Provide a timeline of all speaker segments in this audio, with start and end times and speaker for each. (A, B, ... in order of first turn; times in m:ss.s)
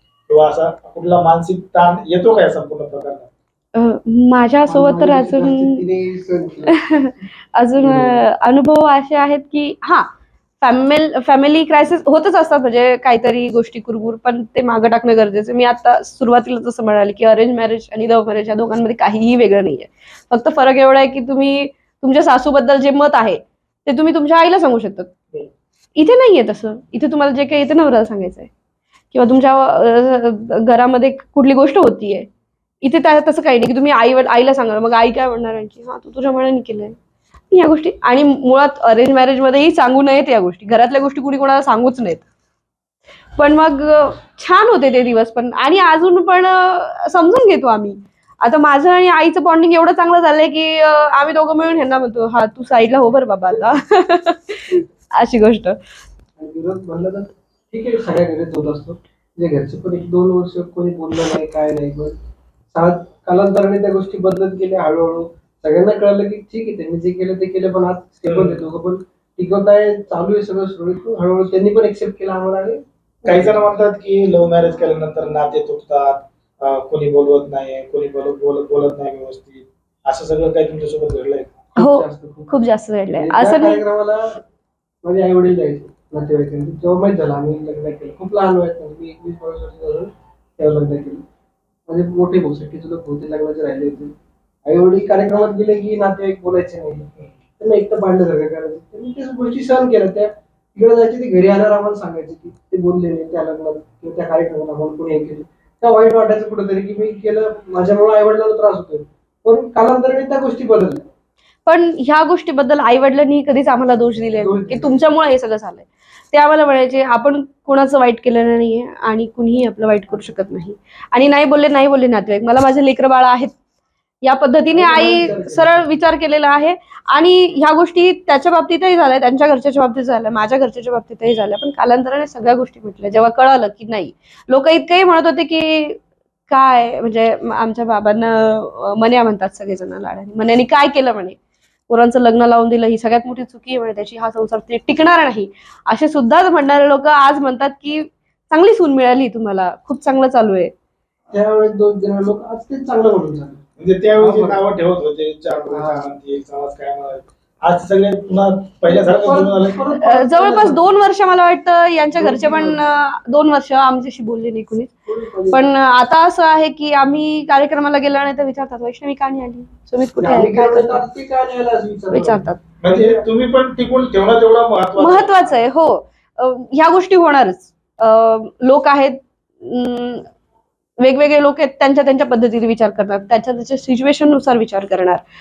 0:00.3-0:03.3 A
0:03.8-0:05.8 B
0:04.7-0:07.0 C
0:06.7-0:10.1 B
0:07.8-0:08.2 C
0:10.6-0:25.1 B
0:26.0-0:28.5 B
0:29.1-0:32.3 B
0:32.8-0:37.0 B
0:37.5-0:42.2 B
0:43.4-0:55.8 B
0:56.4-1:02.1 C
1:02.7-1:13.8 C
1:08.2-1:08.6 A
1:13.3-1:21.5 A
1:21.8-1:22.6 C
1:21.8-1:23.8 B
1:23.1-1:24.4 C
1:25.0-1:31.2 C
1:31.9-1:51.0 C
1:51.6-2:03.6 B
1:54.4-1:55.0 C
2:04.2-2:21.4 B
2:04.7-2:05.9 C
2:21.9-2:30.7 B
2:31.3-2:33.6 C
2:33.8-2:39.8 A
2:34.2-2:34.6 C
2:35.7-2:36.1 C
2:38.9-2:40.8 C
2:40.0-2:44.9 B
2:42.1-2:42.8 C
2:45.1-2:45.7 C
2:45.5-2:51.0 B
2:50.2-2:53.3 C
2:52.1-2:52.6 B
2:52.8-2:55.6 A
2:55.0-3:00.3 B
3:01.0-3:05.2 B